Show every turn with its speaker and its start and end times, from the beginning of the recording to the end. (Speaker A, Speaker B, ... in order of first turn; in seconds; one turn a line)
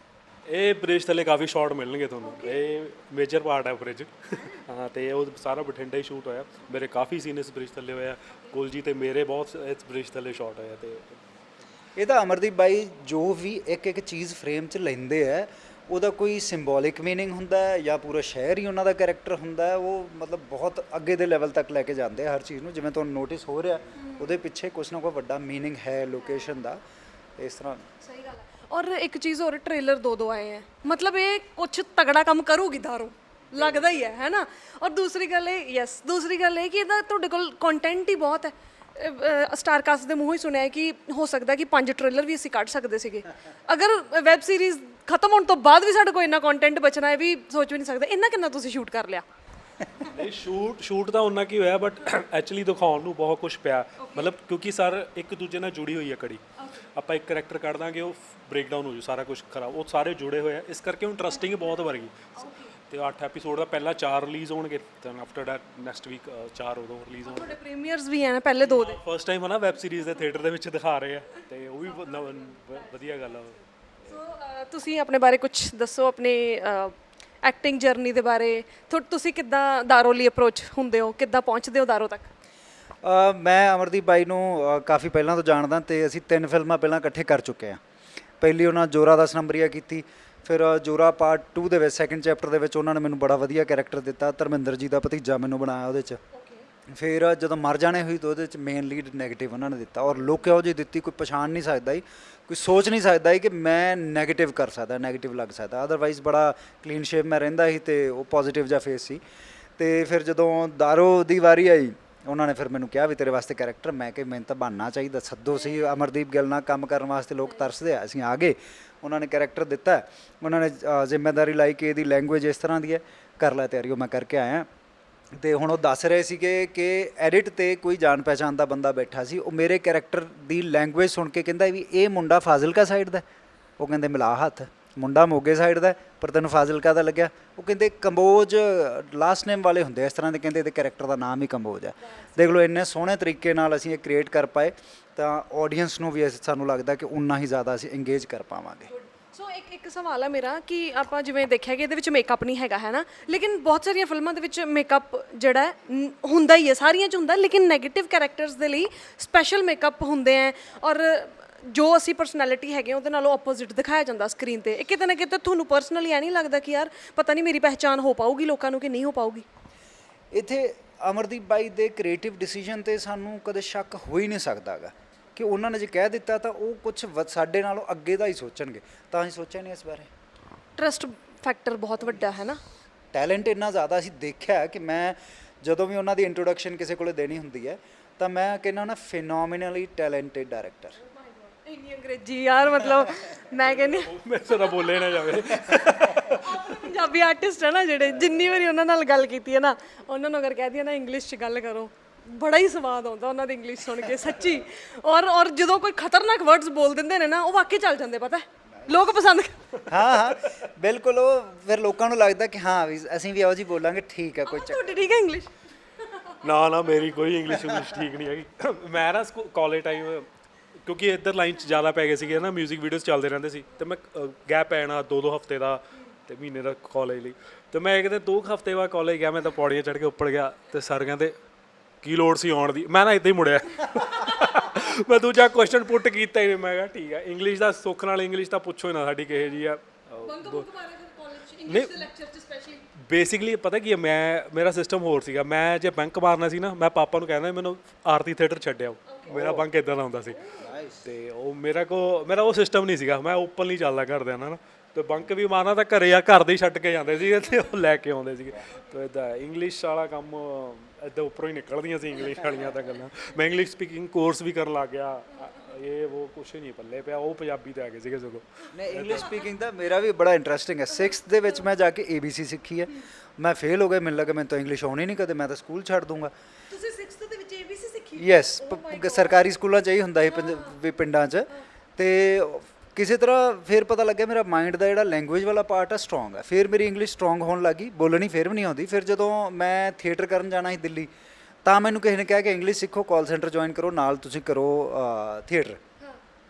Speaker A: 0.5-11.2
Speaker B: 2.2-2.6
Speaker B: 4.3-4.7
Speaker B: 8.3-8.6
Speaker C: 12.0-26.8
Speaker B: 24.0-24.3
Speaker C: 27.4-27.8
Speaker B: 28.0-49.2
Speaker B: 49.9-50.2
Speaker A: 50.1-56.4
Speaker B: 54.0-54.3
Speaker B: 56.6-56.9
Speaker A: 56.9-62.3
Speaker B: 61.5-61.8
Speaker B: 62.4-62.7
Speaker A: 62.9-67.6
Speaker B: 67.2-69.0
Speaker A: 68.6-74.1
Speaker B: 71.9-73.4
Speaker B: 74.1-82.3
Speaker C: 83.0-87.8
Speaker C: 88.4-96.2
Speaker B: 96.3-96.7
Speaker C: 96.9-109.2
Speaker C: 109.8-124.7
Speaker B: 115.5-116.0
Speaker C: 125.4-133.2
Speaker C: 133.8-148.9
Speaker B: 142.0-142.5
Speaker B: 148.9-169.4
Speaker C: 170.3-180.1
Speaker B: 180.8-182.6
Speaker C: 183.1-191.0
Speaker B: 191.0-194.1
Speaker A: 193.6-196.8
Speaker B: 194.7-209.6
Speaker C: 209.9-215.1
Speaker A: 209.9-210.5
Speaker B: 214.5-216.5
Speaker A: 216.4-220.3
Speaker A: 220.8-231.3
Speaker A: 232.0-240.7
Speaker B: 240.2-242.9
Speaker A: 241.7-242.1
Speaker A: 243.0-250.4
Speaker B: 249.1-249.4
Speaker C: 249.3-249.7
Speaker B: 250.3-250.7
Speaker C: 250.6-251.1
Speaker A: 251.1-269.4
Speaker C: 268.7-276.3
Speaker B: 276.7-279.4
Speaker C: 278.2-291.1
Speaker B: 280.3-280.8
Speaker C: 291.6-295.8